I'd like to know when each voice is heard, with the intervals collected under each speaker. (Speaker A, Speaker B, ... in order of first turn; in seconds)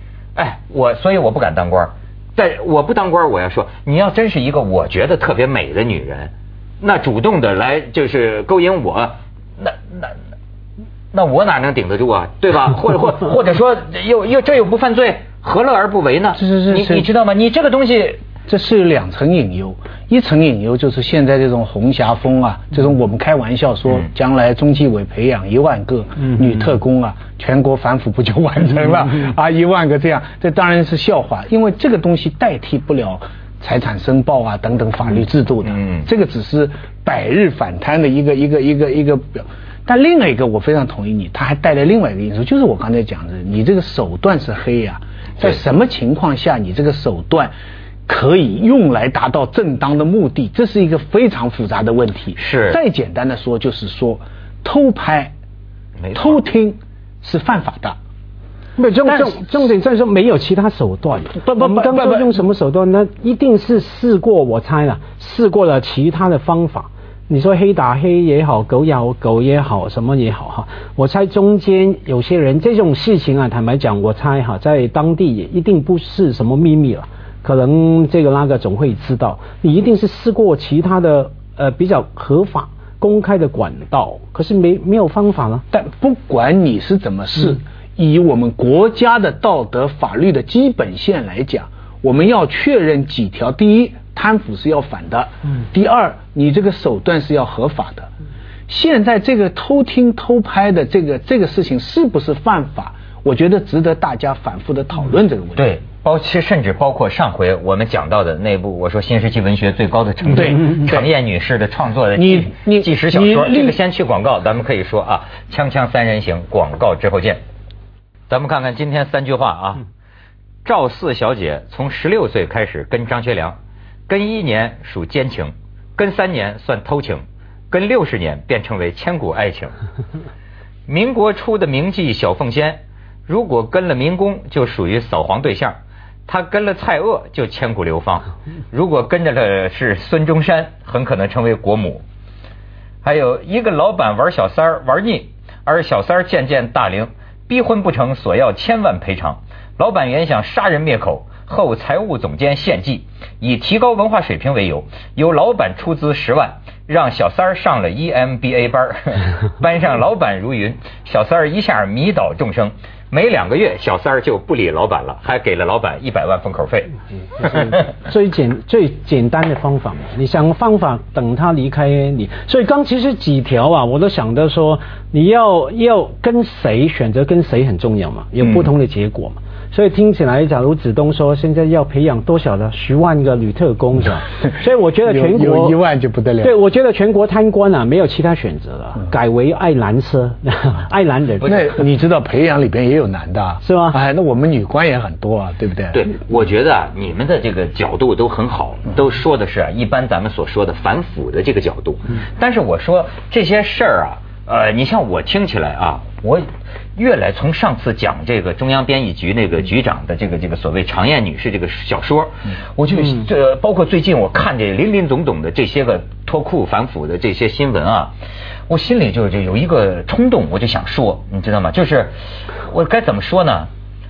Speaker A: 0.3-10.2, 11.1-18.2, 35.6-36.1, 52.3-52.8, 56.0-56.4, 105.5-117.4, 118.3-119.8, 120.6-123.6, 124.1-129.7, 130.9-135.8, 136.3-142.0, 143.0-166.9, 195.9-218.1, 218.7-223.7
Speaker B: 16.3-17.1, 18.5-47.5, 48.1-55.3, 56.1-58.0, 59.0-59.4, 61.4-62.3, 85.7-98.1, 98.7-105.7, 110.3-110.9, 112.1-113.8, 178.4-178.7, 185.0-186.6, 191.4-196.0
Speaker C: 58.8-85.6, 167.4-185.8, 186.4-191.7, 193.6-194.0